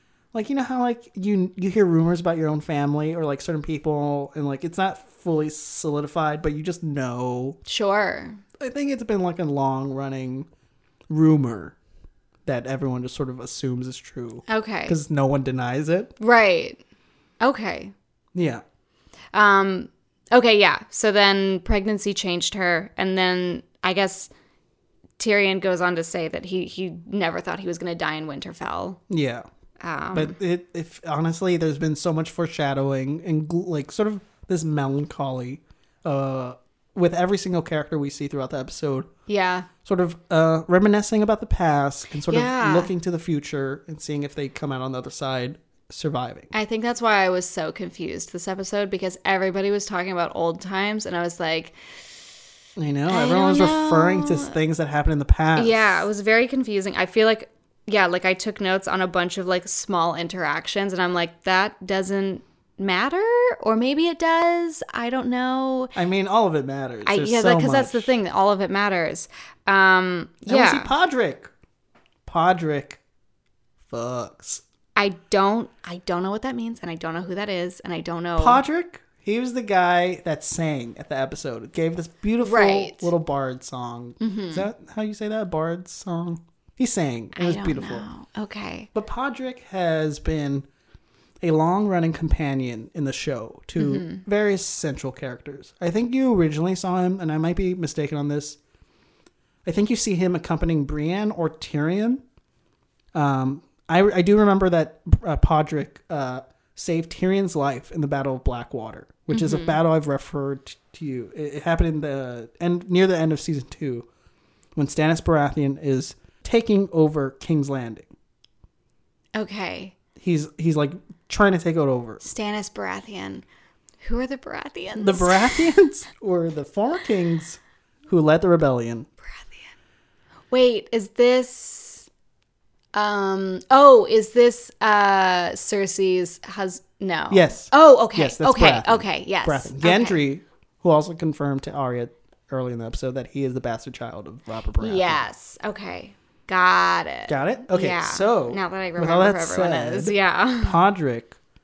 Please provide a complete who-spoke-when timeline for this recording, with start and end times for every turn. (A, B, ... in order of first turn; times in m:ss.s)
0:00.3-0:07.6 A
0:07.7-0:08.4 B
0:08.6-0:10.5 A
0:11.1-0:11.8 A
0:12.5-0:16.1 A
0:14.5-0:15.0 B
0:16.2-0:16.8 B
0:17.4-0:17.9 B
0:18.3-0:18.6 A
0:19.3-0:24.3 B
0:25.2-0:29.0 B
0:29.1-0:29.5 A
0:29.8-0:30.4 B
0:30.1-0:39.1 A
0:39.3-0:39.7 B
0:39.8-0:46.5 A
0:42.3-0:42.9 B
0:46.5-0:52.0 B
0:52.8-0:56.1 A
0:53.1-0:54.6 B
0:55.6-1:05.9 B
1:06.0-1:08.1 A
1:07.1-1:10.9 B
1:10.5-1:11.5 A
1:12.3-1:13.0 A
1:13.9-1:14.6 A
1:15.0-1:18.6 B
1:18.4-1:28.1 A
1:22.4-1:23.1 B
1:24.2-1:24.7 B
1:27.4-1:28.9 B
1:28.9-1:30.7 A
1:31.4-1:38.6 A
1:33.8-1:34.2 B
1:39.6-1:42.2 A
1:43.1-1:54.1 A
1:49.3-1:49.8 B
1:54.8-1:58.1 A
1:59.4-2:00.0 B
2:00.2-2:02.2 A
2:02.2-2:03.4 B
2:04.0-2:05.7 B
2:05.0-2:09.1 A
2:09.3-2:09.6 B
2:10.5-2:12.1 B
2:12.9-2:20.2 B
2:17.3-2:25.2 A
2:24.8-2:30.8 B
2:27.3-2:31.4 A